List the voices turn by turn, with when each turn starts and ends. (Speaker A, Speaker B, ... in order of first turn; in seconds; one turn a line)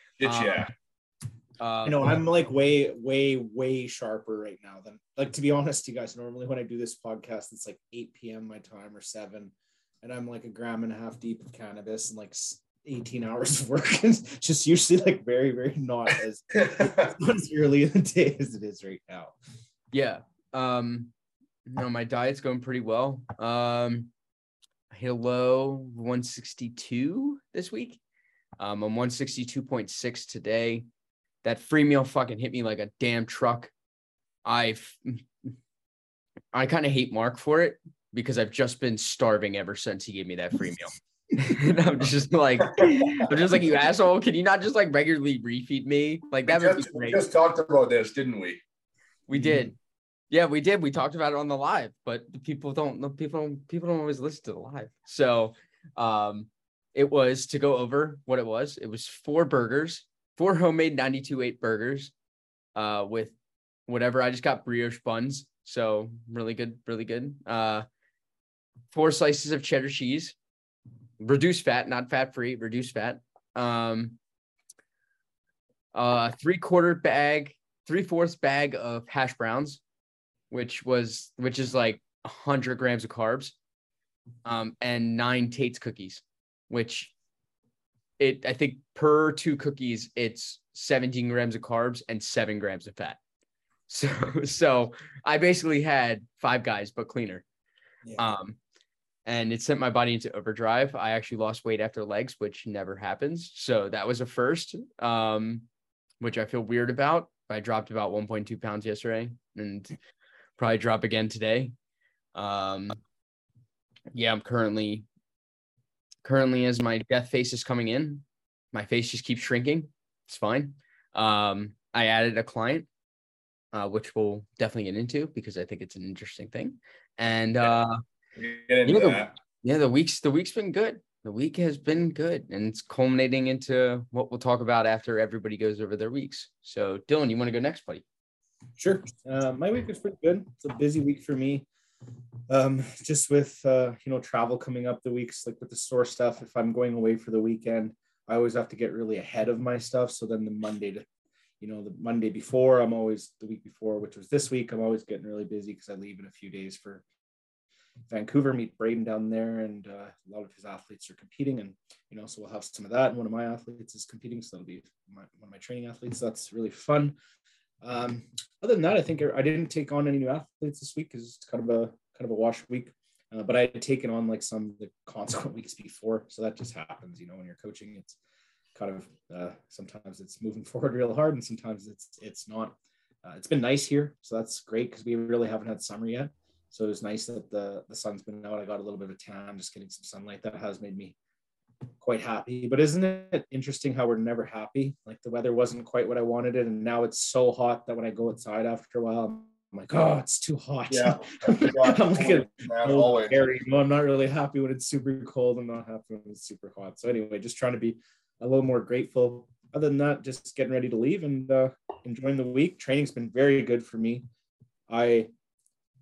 Speaker A: 0.2-0.7
Speaker B: 0.2-0.7
Speaker B: 1.6-2.2
Speaker C: 1.9-19.4
Speaker A: 16.6-17.1
Speaker B: 19.9-21.1
Speaker B: 21.7-24.1
Speaker B: 24.9-28.0
Speaker B: 28.6-30.9
Speaker B: 31.4-33.7
Speaker B: 34.5-35.3
Speaker B: 36.5-47.2
Speaker A: 46.5-48.6
Speaker B: 49.3-49.8
Speaker C: 49.3-49.7
Speaker B: 50.3-62.1
Speaker B: 62.8-63.4
Speaker B: 63.9-67.9
Speaker B: 68.9-70.4
Speaker B: 71.2-74.2
Speaker B: 75.9-79.8
Speaker B: 80.5-83.6
Speaker B: 84.5-87.1
Speaker B: 88.2-93.2
Speaker B: 93.9-97.5
Speaker B: 98.2-98.6
Speaker B: 99.2-105.7
Speaker B: 106.2-110.0
Speaker B: 110.6-111.8
Speaker B: 112.3-113.0
Speaker B: 114.1-115.1
Speaker B: 116.2-122.9
Speaker B: 123.7-128.0
Speaker A: 128.4-129.3
Speaker B: 128.8-138.0
Speaker C: 138.8-141.7
Speaker C: 142.5-151.1
Speaker C: 151.6-157.1
Speaker C: 158.1-167.2
Speaker C: 167.8-178.2
Speaker C: 178.8-191.2
Speaker C: 192.0-214.2
Speaker A: 200.9-203.5
Speaker C: 214.9-215.3